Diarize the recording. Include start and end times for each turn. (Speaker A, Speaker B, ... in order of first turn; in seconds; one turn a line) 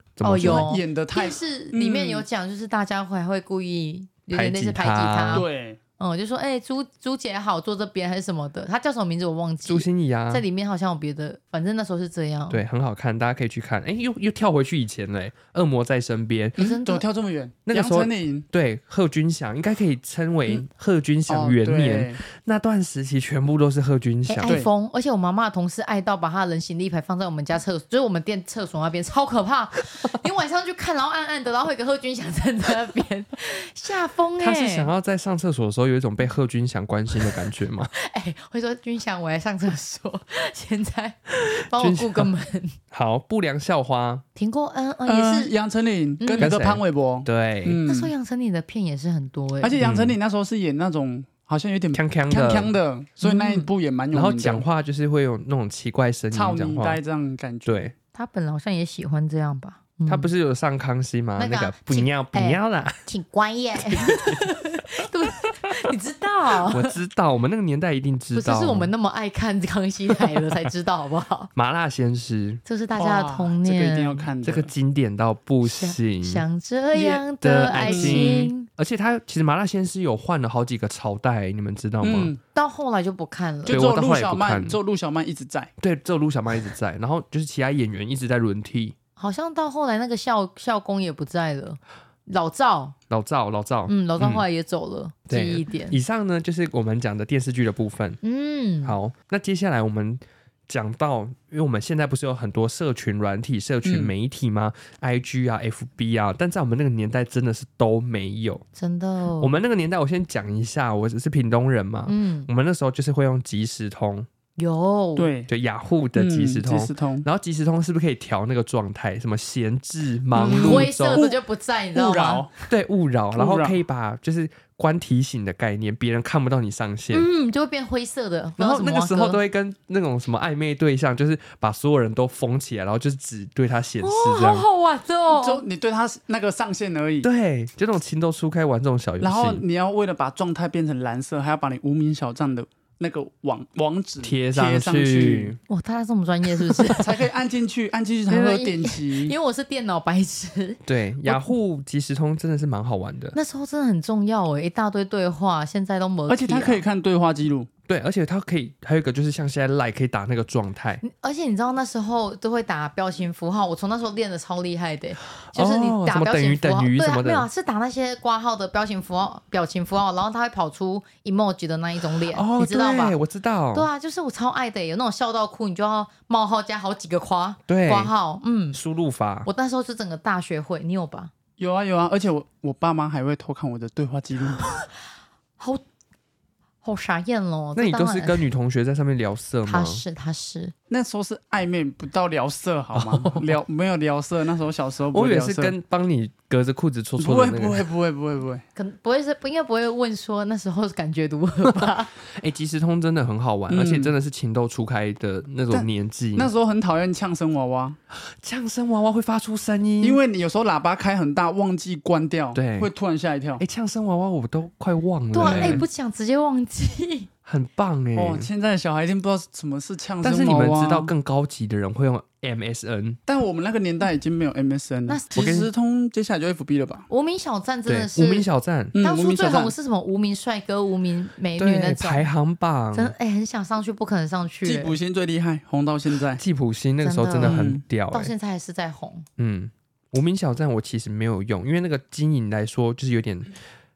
Speaker A: 0.2-0.7
Speaker B: 0.2-5.5
Speaker C: 0.4-2.2
Speaker A: 4.3-5.5
Speaker C: 5.3-5.8
Speaker B: 6.0-12.6
Speaker A: 9.7-10.4
Speaker A: 12.5-16.6
Speaker B: 16.6-17.1
Speaker C: 16.6-18.5
Speaker A: 17.7-24.6
Speaker C: 21.3-22.2
Speaker B: 24.3-34.9
Speaker A: 34.4-37.9
Speaker B: 37.9-42.8
Speaker A: 41.7-42.3
Speaker A: 42.9-44.2
Speaker B: 44.4-45.5
Speaker C: 45.1-48.1
Speaker B: 46.2-46.6
Speaker A: 46.4-47.8
Speaker B: 47.9-49.8
Speaker C: 49.6-54.6
Speaker A: 49.8-50.2
Speaker A: 51.9-52.7
Speaker B: 53.2-53.7
Speaker A: 54.1-57.0
Speaker C: 56.3-57.9
Speaker A: 57.7-57.9
Speaker B: 58.1-60.3
Speaker A: 60.1-63.0
Speaker B: 61.4-67.0
Speaker A: 64.0-64.5
Speaker A: 66.7-68.9
Speaker B: 68.3-71.5
Speaker A: 71.6-72.6
Speaker B: 72.7-74.3
Speaker C: 73.0-74.7
Speaker A: 74.4-76.4
Speaker B: 75.6-78.7
Speaker C: 76.9-78.4
Speaker A: 77.4-82.3
Speaker C: 82.0-82.4
Speaker B: 82.5-83.8
Speaker C: 83.7-85.7
Speaker A: 83.7-84.8
Speaker A: 85.8-89.0
Speaker B: 89.2-93.0
Speaker A: 93.1-94.5
Speaker B: 93.9-96.0
Speaker A: 95.3-98.2
Speaker B: 98.2-99.0
Speaker A: 98.8-108.7
Speaker C: 103.8-104.1
Speaker B: 108.8-109.6
Speaker A: 109.4-114.3
Speaker B: 112.1-112.5
Speaker B: 114.6-115.3
Speaker C: 115.2-115.5
Speaker A: 115.5-121.2
Speaker C: 116.2-117.3
Speaker C: 120.4-121.4
Speaker B: 120.4-122.5
Speaker C: 121.9-122.5
Speaker A: 122.7-127.3
Speaker C: 123.3-123.8
Speaker B: 127.1-129.4
Speaker A: 128.6-134.7
Speaker B: 134.0-135.6
Speaker C: 135.3-137.3
Speaker A: 137.2-139.6
Speaker C: 139.2-145.6
Speaker A: 144.2-145.6
Speaker B: 145.7-147.2
Speaker C: 147.0-149.3
Speaker B: 148.3-151.5
Speaker A: 150.9-153.4
Speaker B: 153.3-156.8
Speaker C: 156.3-157.7
Speaker A: 157.9-161.0
Speaker B: 161.0-173.2
Speaker A: 165.4-167.5
Speaker A: 172.2-173.9
Speaker B: 173.7-178.8
Speaker A: 177.7-178.1
Speaker A: 178.7-179.5
Speaker B: 179.5-181.3
Speaker C: 181.6-184.7
Speaker B: 184.6-184.9
Speaker B: 186.8-188.4
Speaker A: 187.8-190.0
Speaker B: 189.7-190.7
Speaker C: 190.9-195.8
Speaker A: 192.9-193.6
Speaker A: 195.1-197.9
Speaker C: 197.2-198.6
Speaker B: 198.8-202.1
Speaker A: 201.7-206.5
Speaker C: 203.7-204.1
Speaker C: 205.7-208.0
Speaker A: 208.1-210.2
Speaker C: 210.0-213.6
Speaker A: 212.6-212.9
Speaker A: 213.6-215.8
Speaker B: 215.3-217.3
Speaker C: 215.4-215.8
Speaker A: 217.4-218.5
Speaker C: 218.2-221.1
Speaker A: 220.2-223.2
Speaker C: 223.3-227.1
Speaker B: 225.1-225.5
Speaker A: 225.3-225.7
Speaker B: 227.1-228.5
Speaker A: 227.9-228.9
Speaker C: 228.9-229.7
Speaker B: 229.0-232.3
Speaker A: 231.6-233.1
Speaker B: 232.9-235.0
Speaker C: 234.6-236.4
Speaker A: 236.4-238.3
Speaker B: 237.0-239.3
Speaker C: 237.4-237.8
Speaker A: 239.4-243.5